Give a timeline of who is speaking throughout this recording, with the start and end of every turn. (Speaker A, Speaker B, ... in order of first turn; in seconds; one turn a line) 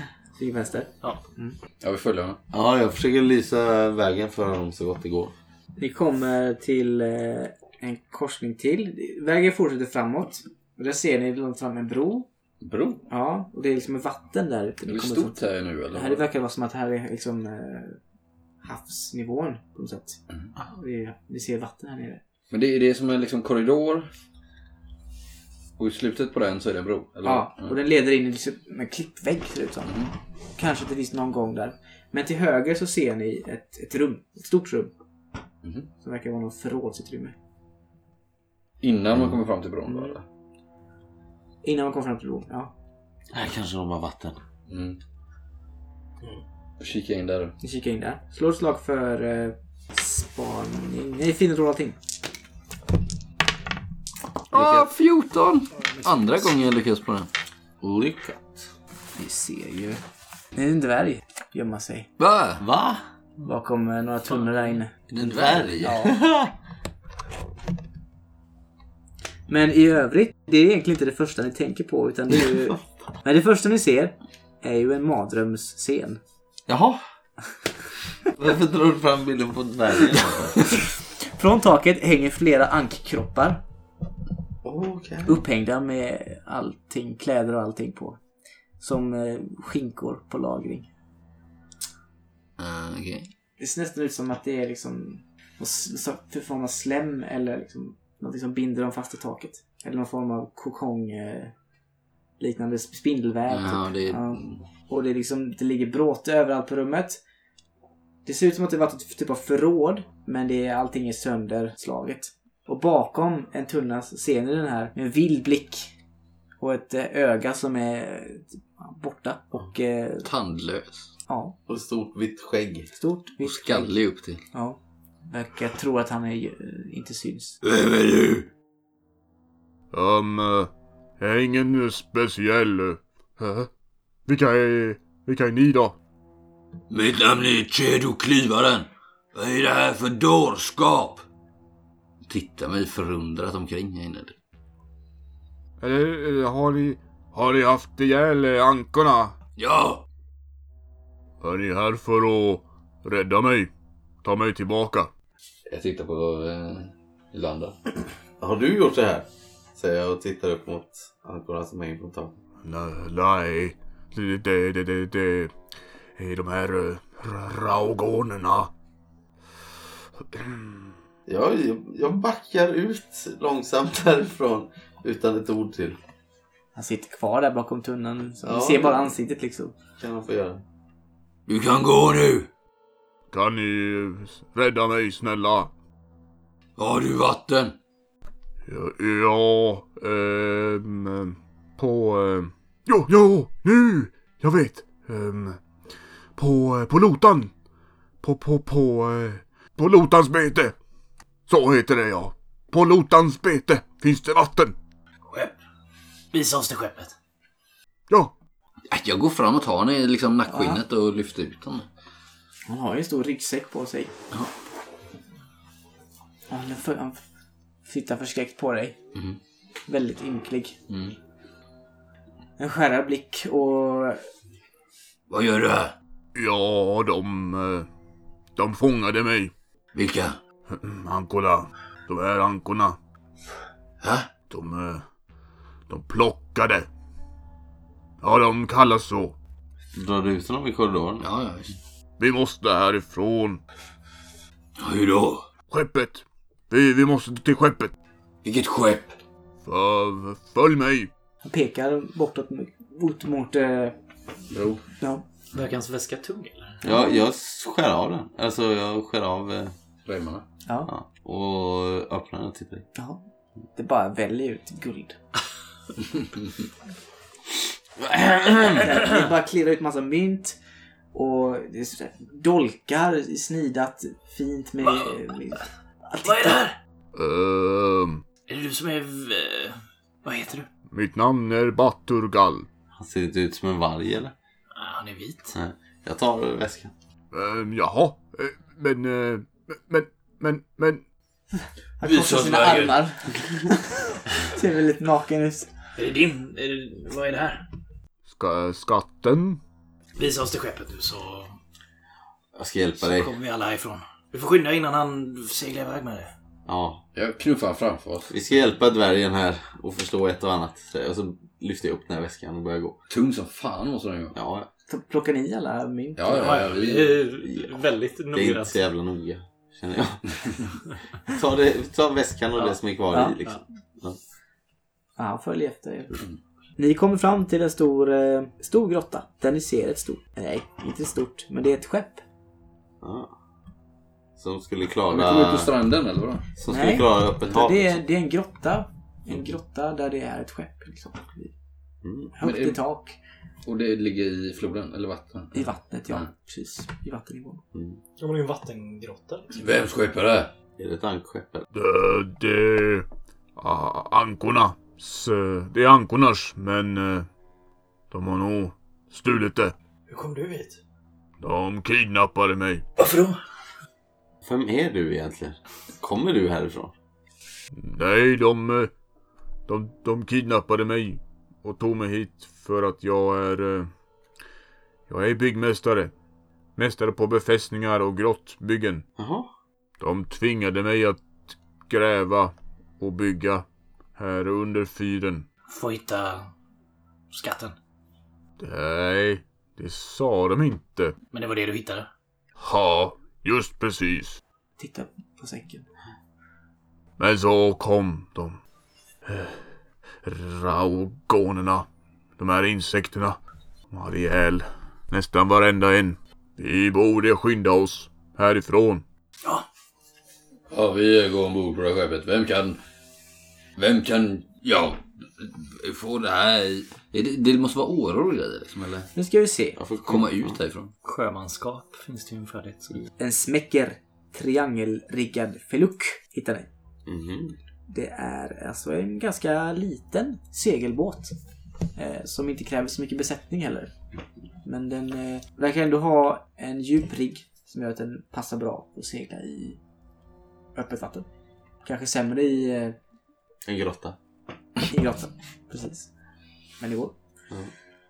Speaker A: 0.4-1.6
Speaker B: 1.8-2.4
Speaker C: 2.5-5.3
Speaker A: 5.8-12.3
Speaker B: 12.6-13.0
Speaker A: 13.1-18.0
Speaker B: 14.8-16.2
Speaker A: 18.6-22.2
Speaker B: 22.5-24.1
Speaker B: 25.8-27.8
Speaker A: 27.2-29.9
Speaker B: 29.9-30.1
Speaker A: 30.6-34.9
Speaker B: 35.6-35.9
Speaker A: 36.0-37.4
Speaker B: 38.8-40.2
Speaker A: 39.9-40.2
Speaker A: 41.6-42.7
Speaker C: 43.3-44.4
Speaker B: 44.7-45.0
Speaker B: 46.8-47.5
Speaker A: 47.6-52.0
Speaker B: 54.5-57.3
Speaker C: 57.8-58.6
Speaker A: 59.2-60.0
Speaker A: 60.5-62.1
Speaker B: 62.2-62.6
Speaker C: 62.6-63.0
Speaker A: 63.4-66.2
Speaker B: 65.1-66.0
Speaker C: 65.2-66.5
Speaker A: 69.5-76.2
Speaker C: 76.7-77.0
Speaker C: 78.3-80.7
Speaker A: 80.6-83.6
Speaker C: 84.6-85.4
Speaker A: 85.3-88.2
Speaker A: 88.8-90.9
Speaker B: 92.6-93.3
Speaker A: 93.6-101.5
Speaker A: 102.4-107.2
Speaker B: 103.5-104.7
Speaker A: 108.2-115.9
Speaker A: 116.6-120.3
Speaker B: 120.2-121.1
Speaker A: 121.3-121.6
Speaker C: 121.7-122.9
Speaker A: 122.9-124.0
Speaker B: 123.4-124.4
Speaker A: 124.5-127.6
Speaker B: 127.6-128.5
Speaker D: 129.9-133.7
Speaker D: 134.3-135.9
Speaker B: 136.9-141.2
Speaker B: 142.2-144.4
Speaker D: 145.8-149.3
Speaker B: 149.6-150.0
Speaker D: 151.4-153.7
Speaker D: 154.2-155.1
Speaker B: 155.7-157.7
Speaker C: 158.4-162.4
Speaker D: 162.6-165.5
Speaker D: 166.2-168.7
Speaker D: 170.3-170.9
Speaker C: 171.3-176.0
Speaker A: 176.7-179.8
Speaker C: 178.4-179.1
Speaker C: 180.0-180.6
Speaker B: 181.5-182.5
Speaker D: 183.3-185.7
Speaker B: 186.8-187.8
Speaker D: 188.7-195.6
Speaker D: 196.3-197.5
Speaker D: 198.2-200.7
Speaker D: 201.5-204.7
Speaker E: 205.3-205.6
Speaker E: 206.3-207.1
Speaker B: 208.9-211.9
Speaker A: 210.5-210.8
Speaker A: 212.7-214.1
Speaker A: 216.5-217.2
Speaker A: 217.8-219.0
Speaker A: 219.9-220.8
Speaker B: 220.9-221.2
Speaker A: 222.6-224.2
Speaker B: 225.3-225.9
Speaker D: 226.3-227.9
Speaker D: 228.6-229.5
Speaker B: 229.9-230.4
Speaker D: 230.7-233.0
Speaker B: 234.0-234.3
Speaker D: 234.5-235.0
Speaker D: 235.9-236.9
Speaker D: 238.2-239.3
Speaker C: 239.9-241.2
Speaker B: 241.2-241.8
Speaker D: 242.2-243.6
Speaker B: 244.8-245.4
Speaker D: 245.7-247.9
Speaker B: 248.4-249.2
Speaker D: 249.6-251.1
Speaker A: 251.4-253.9
Speaker B: 254.5-254.8
Speaker A: 255.0-255.2
Speaker E: 255.5-256.8
Speaker C: 256.8-259.7
Speaker B: 260.0-260.4
Speaker C: 260.9-262.9
Speaker A: 262.9-263.2
Speaker A: 263.8-265.2
Speaker C: 268.1-268.8
Speaker A: 268.6-270.6
Speaker A: 271.1-276.6
Speaker E: 274.8-275.2
Speaker E: 276.2-276.8
Speaker D: 277.1-278.2
Speaker E: 278.5-280.7
Speaker D: 280.9-282.6
Speaker C: 282.9-284.3
Speaker E: 284.7-285.6
Speaker C: 285.5-286.9
Speaker D: 287.3-291.0
Speaker A: 292.0-295.7
Speaker B: 292.0-293.0
Speaker E: 295.9-297.6
Speaker D: 298.3-299.6
Speaker E: 300.1-301.6
Speaker C: 302.6-303.3
Speaker E: 303.0-306.3
Speaker C: 306.6-307.0
Speaker B: 307.1-308.3
Speaker C: 308.3-313.0
Speaker B: 313.1-314.4
Speaker C: 314.3-314.7
Speaker A: 314.9-316.7
Speaker B: 316.1-317.2
Speaker E: 316.3-318.8
Speaker C: 317.4-317.8
Speaker C: 318.3-320.8
Speaker C: 321.3-324.2
Speaker A: 323.1-323.4
Speaker A: 325.2-326.1
Speaker A: 326.8-332.2
Speaker C: 333.0-333.3
Speaker C: 334.4-335.7
Speaker B: 335.1-336.4
Speaker C: 336.6-338.0
Speaker A: 336.7-341.5
Speaker C: 342.0-342.3
Speaker A: 342.3-343.2
Speaker B: 342.4-342.8
Speaker B: 343.6-346.3
Speaker A: 345.5-347.6
Speaker C: 347.7-348.0
Speaker E: 348.2-349.7
Speaker B: 349.5-350.5
Speaker C: 350.8-351.7
Speaker D: 351.7-357.3
Speaker D: 358.1-359.7
Speaker E: 360.1-360.8
Speaker D: 361.4-362.8
Speaker E: 363.0-363.4
Speaker C: 364.4-366.9
Speaker D: 367.7-368.9
Speaker D: 369.7-373.9
Speaker D: 375.1-376.1
Speaker D: 376.8-379.0
Speaker C: 379.2-379.5
Speaker D: 380.0-383.6
Speaker D: 384.1-385.4
Speaker E: 385.7-386.5
Speaker E: 387.3-387.8
Speaker D: 388.6-391.1
Speaker E: 391.3-392.1
Speaker D: 392.6-394.4
Speaker A: 394.8-395.9
Speaker D: 397.2-398.6
Speaker D: 399.2-399.6
Speaker D: 400.2-403.4
Speaker D: 403.9-409.0
Speaker B: 410.7-412.8
Speaker B: 413.8-419.1
Speaker A: 419.1-419.8
Speaker C: 419.8-420.6
Speaker B: 420.1-420.9
Speaker E: 421.0-423.0
Speaker A: 423.2-426.7
Speaker C: 427.1-427.6
Speaker A: 427.9-431.3
Speaker A: 431.9-433.9
Speaker A: 434.6-439.8
Speaker A: 440.7-441.3
Speaker A: 441.8-443.0
Speaker C: 443.6-444.2
Speaker A: 444.8-446.1
Speaker A: 446.8-447.1